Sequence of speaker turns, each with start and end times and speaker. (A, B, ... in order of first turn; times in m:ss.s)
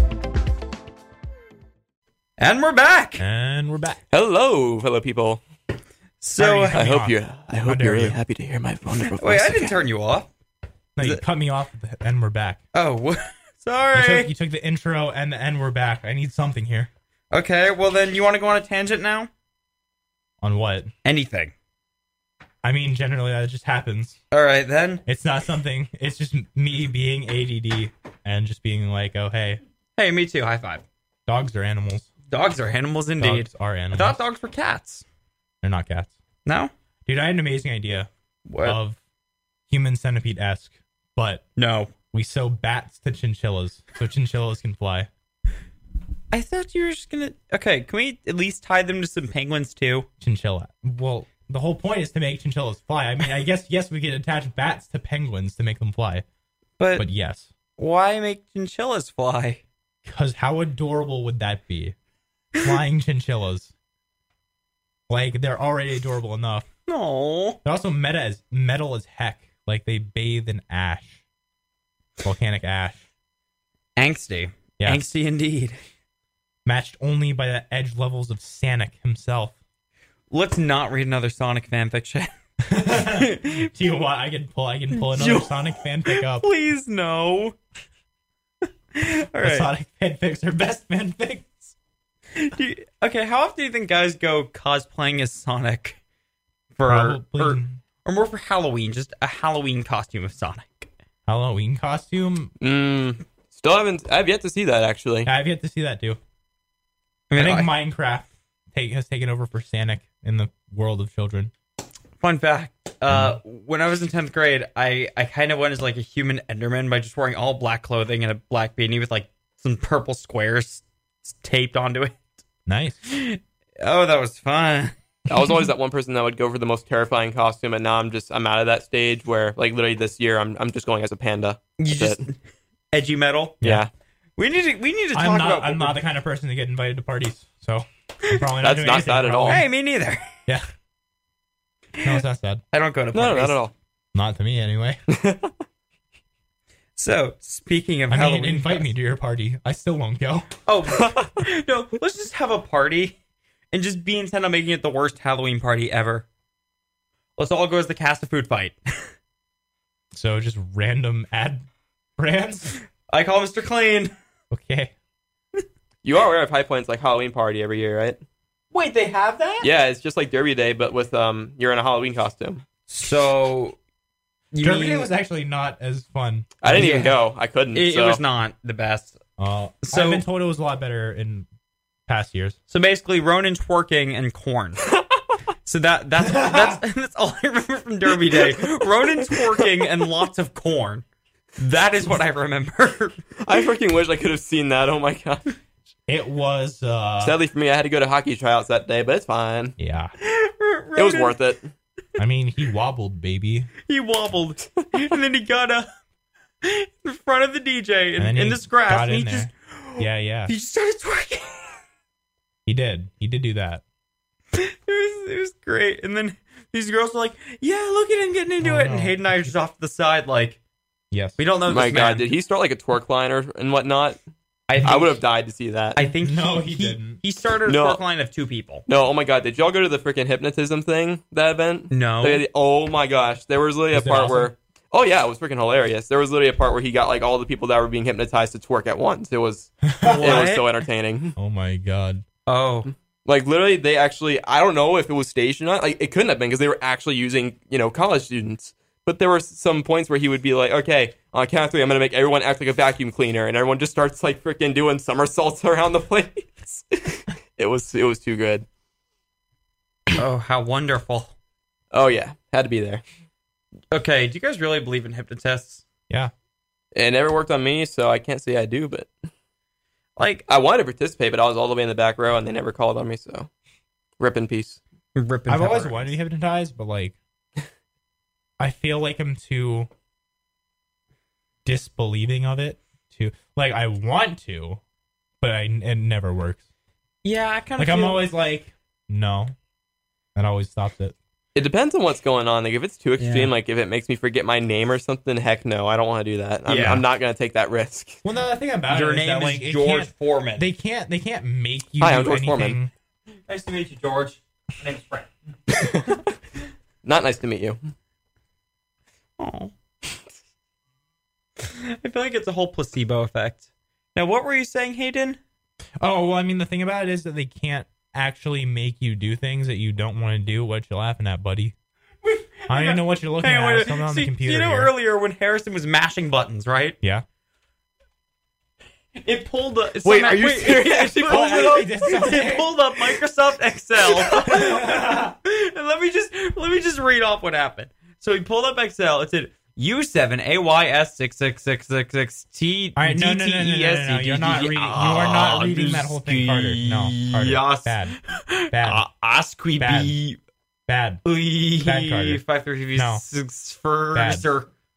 0:02.4-0:03.2 A
0:03.2-0:04.0 B
0:04.1-0:05.4 C
0:06.2-0:06.8 A
0:06.4-0:08.2 B
0:06.8-0:09.8 C
0:09.2-0:10.3 A
0:11.0-0:12.6 B
0:12.7-0:14.3 A
0:13.9-0:16.9 B
0:17.3-0:19.3 A
0:20.4-0:20.9 B
0:21.0-0:21.5 A
0:22.6-0:24.2 B
0:24.3-0:25.0 A
0:25.1-0:29.6 B
0:30.0-0:30.8 A
0:31.3-0:32.1 B
0:32.3-0:35.0 A
0:33.2-0:34.2 B
0:35.6-0:36.2 B
0:36.4-0:36.7 A
0:37.1-0:38.1 B
0:38.5-0:38.8 A
0:38.6-0:39.0 B
0:39.7-0:41.4 B
0:41.6-0:41.9 A
0:42.1-0:45.1 B
0:46.3-0:50.1 A
0:50.2-0:56.2 B
0:56.8-0:57.1 A
0:57.0-0:57.5 B
0:57.8-0:59.6 A
1:00.0-1:02.0 B
1:02.6-1:03.7 B
1:05.1-1:06.7 B
1:06.9-1:07.6 A
1:07.6-1:11.2 B
1:12.2-1:13.0 B
1:14.0-1:15.8 A
1:14.8-1:15.0 B
1:16.6-1:19.6 B
1:20.3-1:22.3 A
1:22.6-1:26.5 B
1:22.8-1:23.7 A
1:24.9-1:27.6 A
1:29.0-1:29.7 A
1:29.4-1:31.7 B
1:32.4-1:36.0 A
1:36.8-1:40.9 A
1:36.8-1:37.8 B
1:41.3-1:42.5 B
1:42.6-1:45.3 C
1:45.2-1:46.2 B
1:47.3-1:47.7 A
1:47.4-1:51.5 B
1:52.2-2:02.2 A
1:53.1-1:53.4 B
2:02.7-2:03.0 B
2:03.1-2:04.9 A
2:05.3-2:12.2 C
2:11.8-2:12.4 A
2:12.9-2:13.7 A
2:13.6-2:13.9 C
2:14.4-2:16.0 A
2:15.1-2:19.6 B
2:18.6-2:19.6 C
2:19.5-2:20.4 A
2:22.0-2:22.6 B
2:22.7-2:23.6 A
2:23.1-2:23.7 C
2:24.1-2:25.0 B
2:25.1-2:25.5 C
2:27.0-2:28.9 A
2:28.1-2:30.5 B
2:30.7-2:33.2 A
2:31.0-2:31.3 C
2:33.7-2:36.3 A
2:37.4-2:38.8 A
2:40.1-2:41.7 B
2:42.2-2:42.8 B
2:43.1-2:44.1 A
2:44.5-2:44.9 B
2:46.0-2:48.2 C
2:48.7-2:49.7 A
2:49.6-2:52.6 C
2:52.9-2:53.8 A
2:54.5-2:55.1 A
2:54.6-2:57.1 B
2:56.6-2:58.2 C
2:56.7-2:57.1 A
2:57.8-2:59.2 A
2:59.4-3:01.5 B
2:59.8-3:00.2 A
3:02.1-3:02.6 B
3:02.7-3:04.8 A
3:05.6-3:11.0 A
3:06.2-3:06.8 B
3:11.6-3:13.2 A
3:13.4-3:15.5 C
3:16.1-3:17.4 B
3:17.2-3:19.8 C
3:19.8-3:20.1 B
3:20.2-3:21.4 A
3:21.0-3:21.7 C
3:22.2-3:23.7 B
3:23.9-3:25.9 A
3:26.6-3:31.8 A
3:28.2-3:30.5 B
3:32.7-3:33.8 B
3:34.6-3:40.6 A
3:38.6-3:39.5 B
3:41.1-3:41.4 B
3:41.4-3:42.3 A
3:41.7-3:44.2 C
3:44.7-3:45.2 A
3:44.8-3:46.0 C
3:46.0-3:48.8 A
3:46.1-3:47.2 B
3:47.7-3:48.0 C
3:48.9-4:01.4 C
3:51.9-3:52.4 A
3:53.9-3:54.5 B
3:59.8-4:00.4 B
4:00.0-4:00.7 A
4:01.4-4:02.2 B
4:02.5-4:02.9 A
4:03.3-4:18.7 C
4:20.1-4:21.3 A
4:21.9-4:23.0 C
4:23.9-4:25.8 A
4:27.0-4:29.1 C
4:30.2-4:30.4 A
4:30.5-4:33.5 C
4:34.2-4:34.8 C
4:35.2-4:36.2 A
4:35.5-4:37.2 B
4:38.6-4:39.9 B
4:41.6-4:44.8 B
4:45.4-4:46.6 B
4:47.2-4:48.3 A
4:47.8-4:49.5 B
4:50.4-4:51.2 B
4:51.6-4:58.2 C
4:53.2-4:53.5 A
4:56.7-4:57.0 A
4:58.2-5:02.9 B
4:58.9-5:00.7 A
5:02.0-5:02.8 C
5:03.5-5:05.3 A
5:05.7-5:06.2 C
5:07.0-5:07.8 C
5:09.4-5:09.7 A
5:11.6-5:15.4 A
5:16.0-5:21.8 B
5:22.2-5:27.0 A
5:22.7-5:24.9 B
5:29.2-5:50.4 A
5:30.0-5:31.9 C
5:31.3-5:32.7 B
5:34.1-5:35.3 B
5:43.0-5:48.2 B
5:48.7-5:49.0 B
5:49.8-5:50.2 B
5:50.9-5:51.2 B
5:51.2-5:54.7 A
5:51.8-5:52.4 B
5:53.0-5:53.2 B
5:54.2-5:54.5 B